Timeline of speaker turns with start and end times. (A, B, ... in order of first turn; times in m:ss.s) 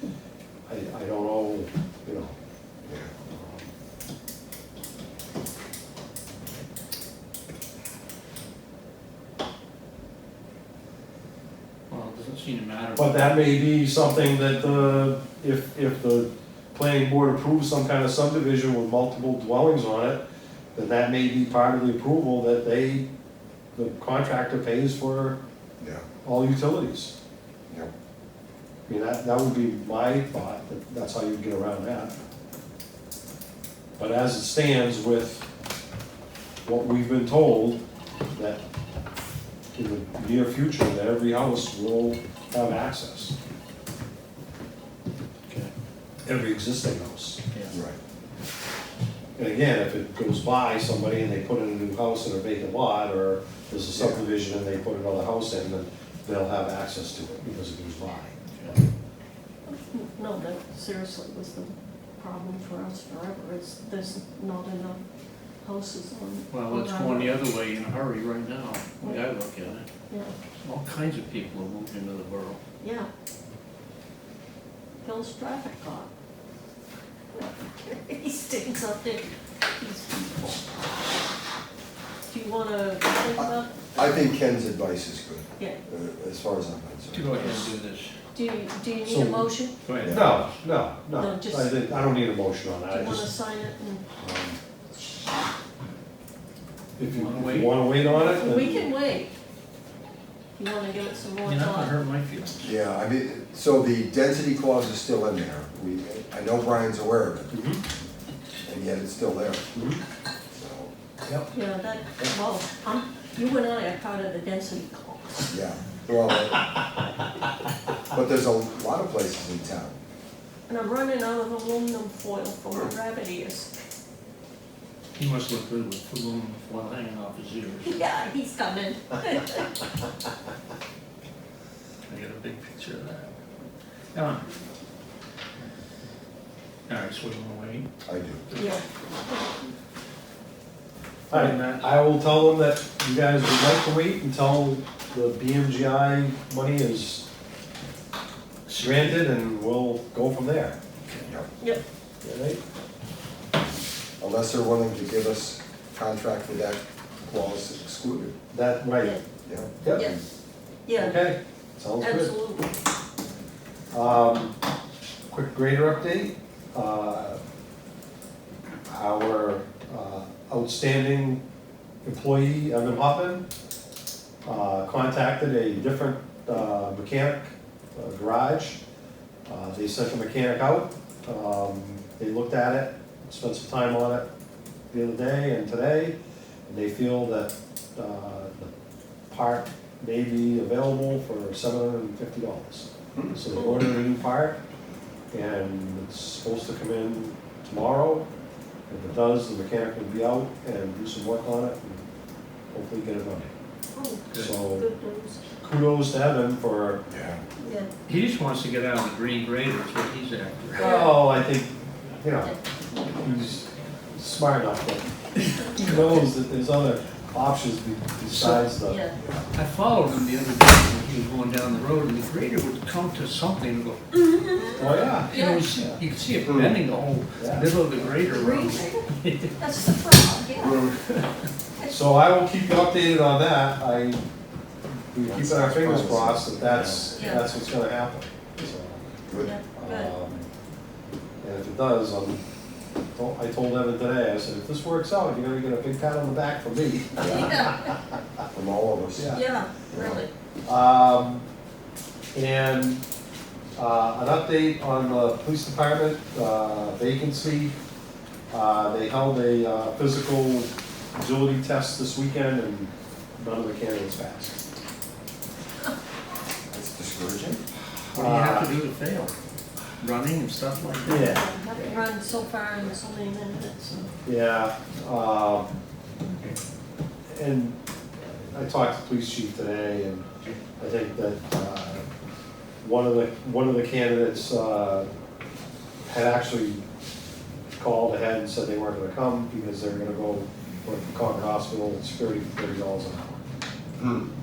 0:00.7-0:02.3 A
0:02.8-0:03.1 B
0:03.2-0:03.7 A
0:11.9-0:13.8 C
0:12.9-0:20.2 A
0:20.7-0:23.1 A
0:23.7-0:25.4 A
0:25.8-0:26.0 B
0:26.2-0:27.1 A
0:28.9-0:32.2 A
0:34.0-0:35.4 A
0:36.6-0:37.8 A
0:38.3-0:38.6 A
0:39.7-0:43.4 A
0:46.2-0:47.4 A
0:47.7-0:48.0 B
0:49.4-0:58.8 A
0:53.9-0:54.2 B
0:59.6-1:05.0 D
1:05.6-1:07.4 D
1:06.5-1:09.8 C
1:10.1-1:10.3 D
1:10.6-1:12.6 C
1:12.8-1:13.1 D
1:15.0-1:16.1 D
1:17.3-1:20.7 D
1:22.3-1:23.8 D
1:23.4-1:27.4 B
1:27.1-1:28.1 C
1:28.3-1:29.8 D
1:29.0-1:29.5 A
1:29.8-1:30.5 C
1:30.0-1:30.4 B
1:30.0-1:33.3 A
1:31.1-1:31.8 D
1:32.9-1:34.0 D
1:34.2-1:34.6 A
1:37.0-1:38.9 A
1:37.0-1:38.0 C
1:38.1-1:39.3 D
1:40.6-1:41.9 D
1:41.4-1:42.7 C
1:42.6-1:47.5 B
1:47.5-1:47.8 A
1:48.6-1:49.8 B
1:49.7-1:50.0 A
1:50.5-1:50.9 B
1:51.2-1:51.5 A
1:51.5-1:55.5 D
1:55.5-1:56.6 B
1:58.1-2:00.0 B
2:00.7-2:03.7 D
2:05.2-2:08.0 C
2:07.8-2:09.8 D
2:12.1-2:13.3 C
2:14.1-2:14.5 C
2:16.9-2:17.9 C
2:18.0-2:18.4 B
2:18.5-2:18.8 C
2:18.5-2:19.6 D
2:21.3-2:27.3 A
2:21.3-2:22.0 C
2:28.7-2:29.2 C
2:28.7-2:30.8 A
2:32.2-2:32.6 A
2:34.2-2:38.3 B
2:38.5-2:39.2 A
2:39.4-2:40.2 B
2:39.8-2:40.1 A
2:39.9-2:40.2 D
2:40.8-2:41.3 D
2:41.0-2:42.3 A
2:42.0-2:42.7 D
2:43.9-2:44.6 A
2:45.3-2:47.4 A
2:48.8-2:51.4 A
2:52.0-2:53.4 A
2:54.4-2:58.8 A
2:59.5-3:04.2 A
3:04.9-3:08.7 A
3:09.3-3:14.6 A
3:15.3-3:18.3 A
3:18.9-3:22.0 A
3:22.7-3:23.5 A
3:23.9-3:25.4 D
3:24.3-3:24.9 A
3:25.6-3:27.0 A
3:27.1-3:27.4 B
3:27.6-3:27.9 D
3:28.1-3:31.0 C
3:30.7-3:32.5 A
3:30.8-3:31.2 D
3:32.4-3:33.1 D
3:33.1-3:35.0 A
3:35.4-3:36.2 C
3:35.7-3:39.1 A
3:38.3-3:38.7 C
3:38.7-3:39.2 D
3:39.5-3:44.0 C
3:44.1-3:45.6 D
3:44.7-3:46.0 A
3:45.3-3:49.6 C
3:46.4-3:46.8 B
3:47.4-3:47.8 A
3:48.2-3:50.9 D
3:50.6-3:51.0 B
3:50.9-3:51.3 C
3:51.9-3:54.2 A
3:55.1-3:59.1 A
3:55.2-3:57.3 B
3:57.1-3:57.5 D
3:59.3-3:59.6 B
3:59.4-4:00.1 D
3:59.7-4:00.5 A
4:01.4-4:02.4 A
4:03.1-4:08.0 A
4:07.2-4:07.6 B
4:07.2-4:08.0 D
4:08.5-4:09.3 B
4:09.1-4:09.4 A
4:09.3-4:10.3 D
4:09.9-4:10.2 B
4:10.6-4:11.4 A
4:12.3-4:13.0 A
4:13.7-4:17.7 A
4:18.5-4:24.6 A
4:26.7-4:27.6 B
4:28.1-4:29.3 C
4:28.1-4:28.7 A
4:30.0-4:31.4 C
4:31.0-4:31.4 A
4:31.2-4:34.1 D
4:34.2-4:35.7 A
4:37.3-4:37.8 A
4:38.3-4:40.3 A
4:40.8-4:42.1 A
4:42.8-4:45.1 A
4:46.1-4:46.8 A
4:47.8-4:53.4 A
4:54.0-4:54.3 B